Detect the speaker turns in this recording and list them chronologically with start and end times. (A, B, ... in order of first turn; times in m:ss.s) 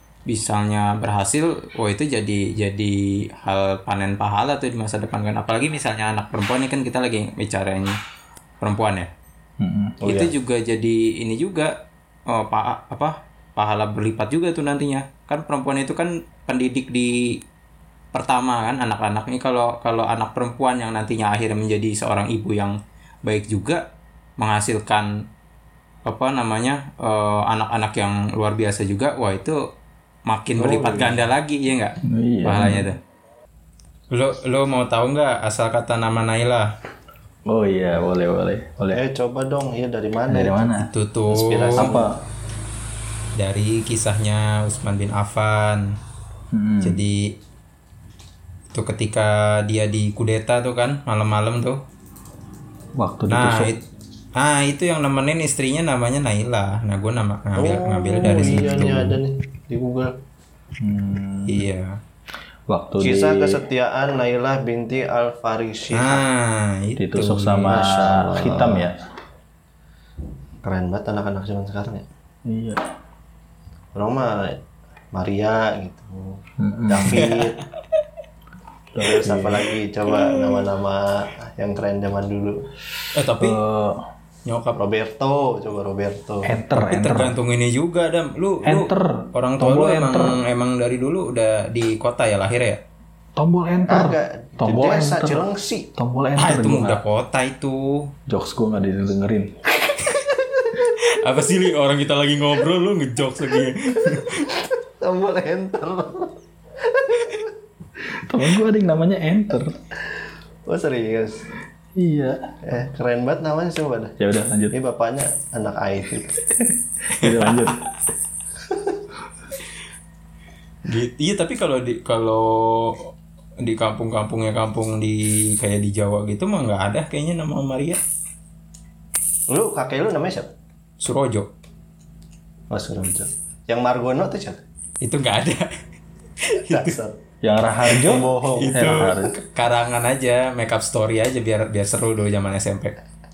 0:00.3-0:08.0 A
0:08.6-0:09.1 A
0:09.6-0:10.0 B
0:10.0-0:17.4 A
0:10.0-0:10.3 C
0:18.1-0:23.8 A
0:24.4-0:25.1 A
0:26.0-0:29.6 A
0:30.3-0:33.0 A
0:30.6-0:31.2 C
0:32.0-0:32.9 B
0:34.1-0:36.7 A
0:37.5-0:39.0 B
0:38.9-0:40.7 C
0:40.3-0:40.9 B
0:40.8-0:41.9 A
0:41.3-0:42.1 C
0:41.8-0:42.2 B
0:43.4-0:45.9 A
0:46.5-0:47.0 B
0:46.8-0:47.3 A
0:48.7-0:51.8 A
0:53.0-0:53.8 B
0:53.3-0:53.8 A
0:54.4-0:59.1 A
0:57.6-1:00.1 C
0:58.3-0:59.2 B
1:00.8-1:01.7 B
1:01.4-1:02.0 A
1:02.7-1:03.6 B
1:03.0-1:06.2 C
1:05.9-1:07.8 A
1:07.0-1:09.0 B
1:07.7-1:08.9 C
1:10.6-1:12.0 C
1:12.4-1:12.8 B
1:13.9-1:14.6 C
1:15.1-1:17.6 C
1:16.6-1:17.4 B
1:18.9-1:19.7 B
1:19.0-1:22.7 C
1:23.1-1:23.6 A
1:23.4-1:24.0 B
1:24.4-1:24.8 A
1:24.8-1:26.6 C
1:26.4-1:27.4 B
1:26.8-1:32.8 A
1:28.6-1:30.4 B
1:33.4-1:37.0 B
1:33.9-1:35.9 C
1:36.4-1:38.1 A
1:38.3-1:39.6 B
1:39.8-1:40.8 C
1:40.9-1:44.5 A
1:44.1-1:47.5 C
1:48.1-1:49.8 B
1:50.6-1:51.5 C
1:51.9-1:52.4 B
1:52.6-1:54.2 C
1:54.2-1:54.8 B
1:54.7-1:56.4 C
1:56.6-1:57.9 B
1:57.2-1:57.7 A
1:58.6-1:59.0 C
2:00.9-2:08.0 A
2:09.5-2:10.5 C
2:11.0-2:11.5 A
2:12.7-2:14.6 C
2:15.0-2:15.7 A
2:16.4-2:17.0 A
2:16.6-2:17.2 C
2:17.4-2:19.4 B
2:17.9-2:19.3 C
2:17.9-2:22.9 A